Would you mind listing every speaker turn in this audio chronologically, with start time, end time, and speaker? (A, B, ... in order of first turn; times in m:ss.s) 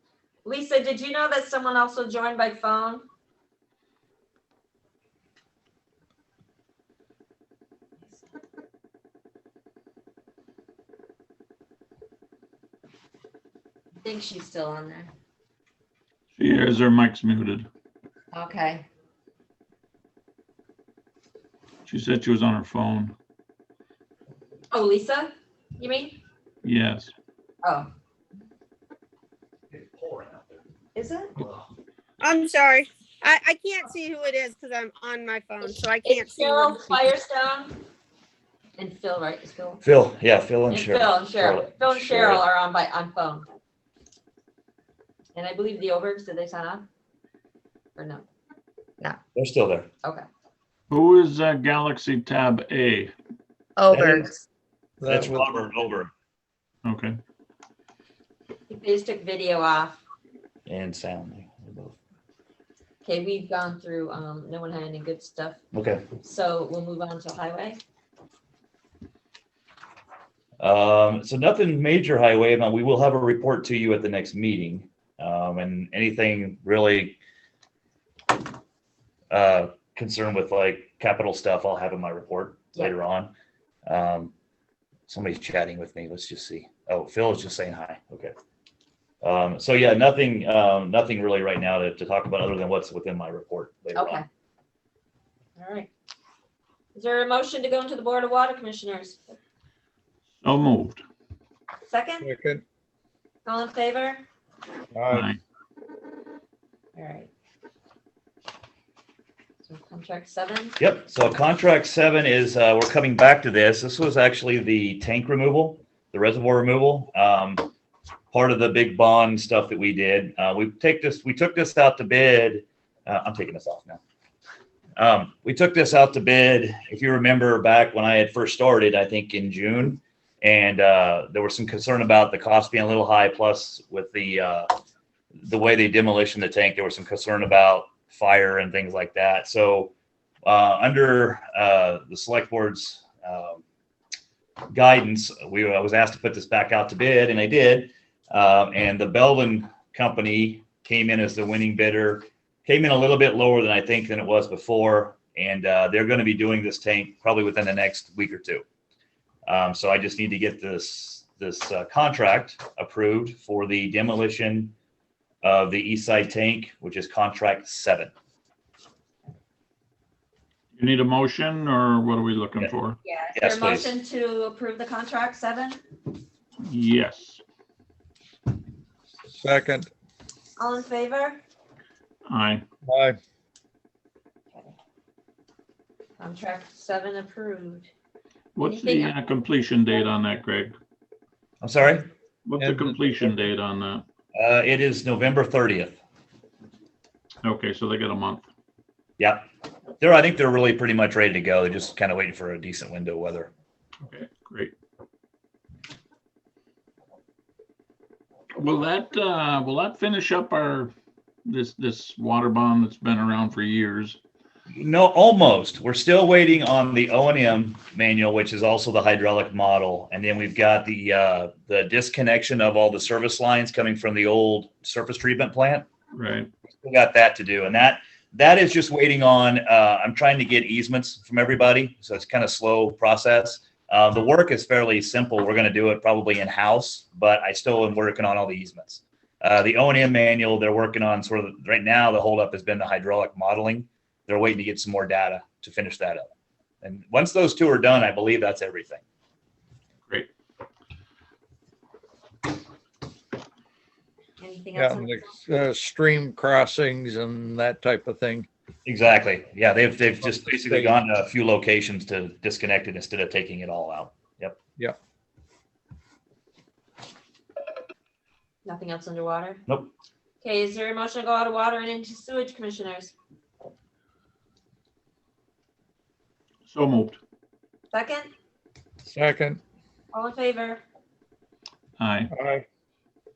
0:00.4-0:03.0 A
0:14.0-0:15.1 A
0:16.4-0:17.7 B
0:18.3-0:18.8 A
0:21.9-0:23.2 B
0:24.7-0:26.2 A
0:26.6-0:27.1 B
0:27.6-0:27.9 A
0:29.7-0:30.6 C
0:31.0-0:31.4 A
0:31.4-0:31.7 C
0:32.2-0:37.1 D
0:36.0-0:37.8 A
0:38.8-0:39.8 A
0:39.8-0:42.4 C
0:40.7-0:43.5 A
0:45.3-0:46.8 A
0:48.0-0:48.2 A
0:49.4-0:49.9 C
0:50.9-0:53.1 B
0:53.9-0:54.2 A
0:53.9-0:54.3 E
0:55.0-0:55.5 E
0:55.1-0:56.1 C
0:56.8-0:57.2 B
0:58.7-1:00.0 A
1:00.7-1:02.0 C
1:03.0-1:05.6 A
1:05.7-1:06.0 C
1:06.2-1:07.8 A
1:10.6-1:17.2 C
1:19.3-1:23.3 C
1:23.9-1:24.3 C
1:25.1-1:28.3 C
1:29.2-1:34.2 C
1:34.0-1:34.2 A
1:35.6-1:35.9 A
1:37.0-1:39.2 A
1:40.4-1:41.0 B
1:41.9-1:42.3 A
1:42.2-1:42.6 E
1:43.4-1:44.2 A
1:44.9-1:45.3 E
1:45.1-1:45.4 B
1:47.0-1:47.3 A
1:49.6-1:50.8 A
1:50.8-1:57.7 C
1:58.3-2:04.0 C
2:05.0-2:14.7 C
2:15.4-2:19.9 C
2:20.4-2:23.6 C
2:24.7-2:38.6 C
2:39.5-2:44.8 C
2:45.4-2:48.1 C
2:50.8-2:53.0 B
2:53.0-2:55.8 A
2:53.4-2:53.9 C
2:56.6-2:57.4 B
2:59.3-2:59.9 E
3:00.6-3:01.4 A
3:02.3-3:02.6 B
3:02.9-3:03.2 E
3:06.2-3:07.9 A
3:08.6-3:10.8 B
3:08.6-3:09.2 A
3:11.6-3:12.1 C
3:12.4-3:14.0 B
3:12.6-3:13.2 E
3:14.3-3:16.0 C
3:17.4-3:18.4 B
3:19.2-3:19.5 C
3:20.0-3:23.5 C
3:24.0-3:24.7 B
3:28.6-3:30.9 B
3:31.5-3:34.2 B
3:34.7-3:45.9 C
3:46.1-3:46.5 B
3:46.8-4:09.0 C
4:14.4-4:15.4 A
4:14.8-4:18.5 E
4:18.8-4:24.6 C
4:20.2-4:21.0 E
4:28.6-4:29.6 A
4:30.4-4:33.1 A
4:36.7-4:37.2 B
4:37.9-4:38.3 A
4:39.1-4:39.6 E
4:40.1-4:40.8 A
4:42.0-4:42.3 B
4:42.3-4:42.6 E